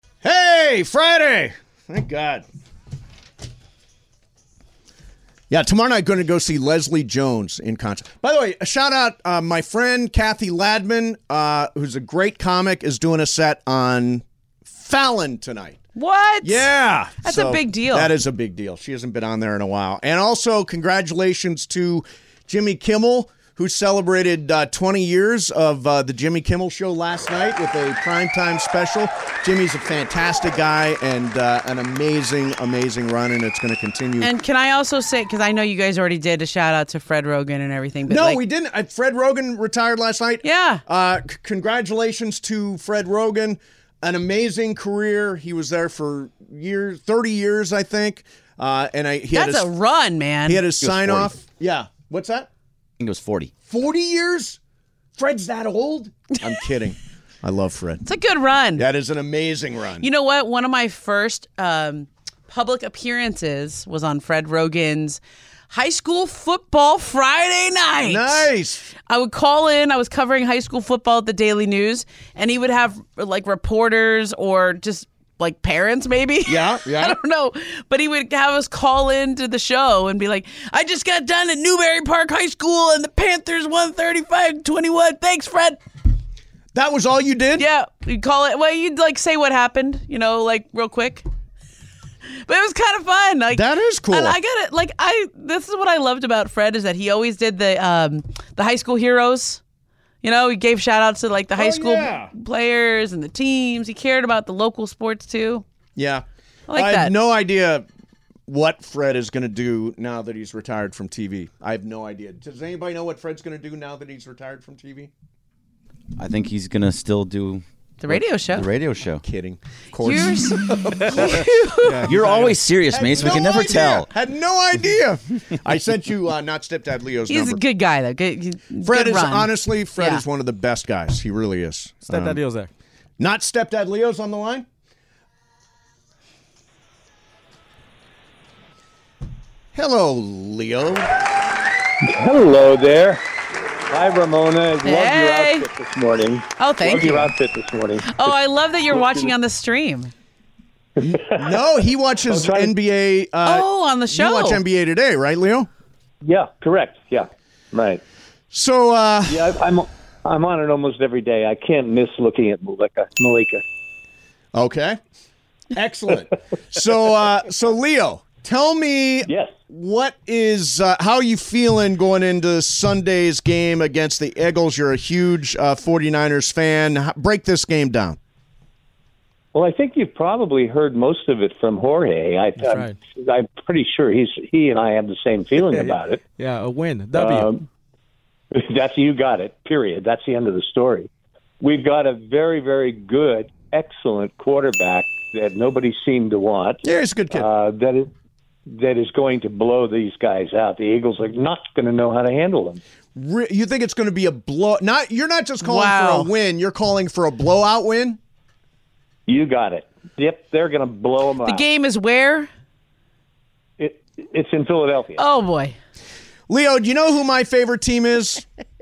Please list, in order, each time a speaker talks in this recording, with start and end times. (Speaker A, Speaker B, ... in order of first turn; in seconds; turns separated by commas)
Speaker A: 0.2-2.5, Speaker A: 5.5-15.8, Speaker B: 16.0-16.7, Speaker A: 16.4-34.3, Speaker B: 17.2-18.1, Speaker B: 34.2-38.4, Speaker A: 38.1-49.7, Speaker B: 40.4-40.8, Speaker B: 49.3-50.6, Speaker A: 50.5-52.5, Speaker C: 50.8-51.3, Speaker C: 53.0-53.5, Speaker A: 53.7-54.6, Speaker A: 55.2-58.1, Speaker B: 58.1-58.9, Speaker A: 58.8-60.1, Speaker B: 60.0-68.5, Speaker A: 68.0-68.9, Speaker B: 69.1-85.8, Speaker A: 76.5-77.2, Speaker A: 86.7-87.7, Speaker B: 87.6-91.2, Speaker B: 92.5-99.6, Speaker A: 93.5-94.4, Speaker B: 100.2-105.6, Speaker A: 101.6-102.3, Speaker A: 106.0-107.8, Speaker B: 106.7-107.1, Speaker A: 108.5-115.1, Speaker C: 116.2-119.2, Speaker B: 118.0-118.7, Speaker A: 119.2-121.5, Speaker B: 120.0-122.0, Speaker D: 121.8-122.6, Speaker C: 122.1-124.1, Speaker A: 122.9-127.6, Speaker B: 127.3-130.2, Speaker A: 128.8-132.4, Speaker D: 132.1-132.7, Speaker A: 133.2-134.7, Speaker A: 139.7-141.2, Speaker E: 142.0-143.2, Speaker E: 143.9-148.3, Speaker B: 144.8-145.7, Speaker B: 146.6-147.3, Speaker B: 148.1-150.1, Speaker E: 148.9-149.3, Speaker E: 151.0-151.8, Speaker A: 151.0-155.7, Speaker E: 152.3-152.7, Speaker B: 153.5-154.6, Speaker E: 156.2-158.0, Speaker A: 158.5-159.5, Speaker E: 159.3-163.6, Speaker A: 164.5-165.0, Speaker A: 165.7-178.2, Speaker E: 169.3-169.5, Speaker E: 179.5-186.2, Speaker D: 182.6-183.0, Speaker D: 185.7-187.5, Speaker E: 187.2-187.7, Speaker E: 188.5-191.1, Speaker E: 191.6-198.1, Speaker A: 196.8-197.5, Speaker E: 198.7-202.8, Speaker A: 203.2-208.2, Speaker B: 205.6-206.3, Speaker E: 209.3-211.7, Speaker B: 211.4-212.5, Speaker E: 213.8-215.2, Speaker B: 215.2-215.8, Speaker A: 216.5-218.5